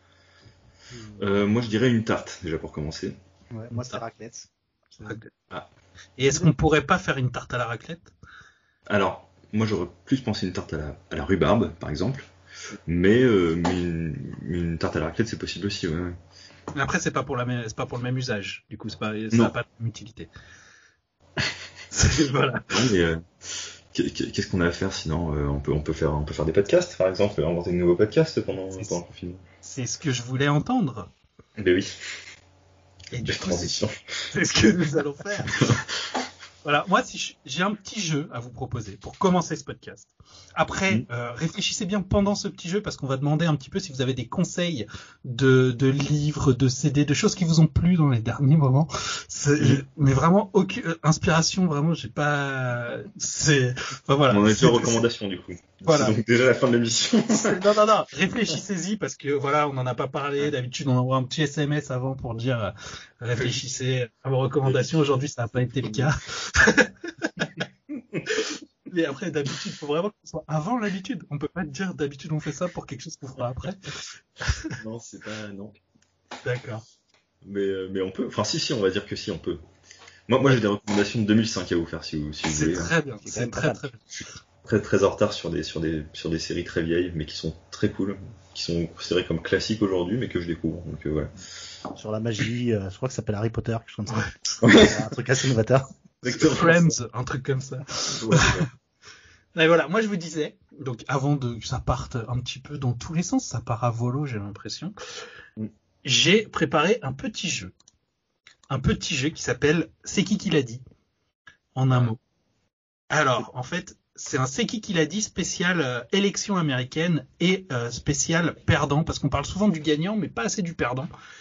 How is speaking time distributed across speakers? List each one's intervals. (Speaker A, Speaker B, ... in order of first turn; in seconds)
Speaker A: 1.1-3.2, 8.9-12.3, 12.9-16.2, 22.7-29.4, 31.6-31.9, 33.2-34.3, 35.5-35.9, 54.3-57.6, 64.6-65.0, 65.8-66.1, 74.7-75.8, 77.4-79.6, 80.3-82.9, 84.1-91.3, 94.6-95.0, 96.2-97.0, 98.1-98.7
Speaker B: 3.5-4.5, 6.2-6.5, 83.2-83.8, 91.9-95.9
Speaker C: 3.7-4.0, 5.0-5.3, 6.2-8.1, 16.7-20.3, 21.9-22.8, 29.6-31.1, 33.1-33.8, 34.3-35.5, 36.6-55.0, 55.9-56.2, 57.3-67.5, 68.3-74.8, 76.4-76.8, 82.5-84.0, 94.1-94.6, 96.2-98.7, 99.5-104.9, 106.0-107.7, 108.7-110.8, 111.7-112.2, 113.1-121.1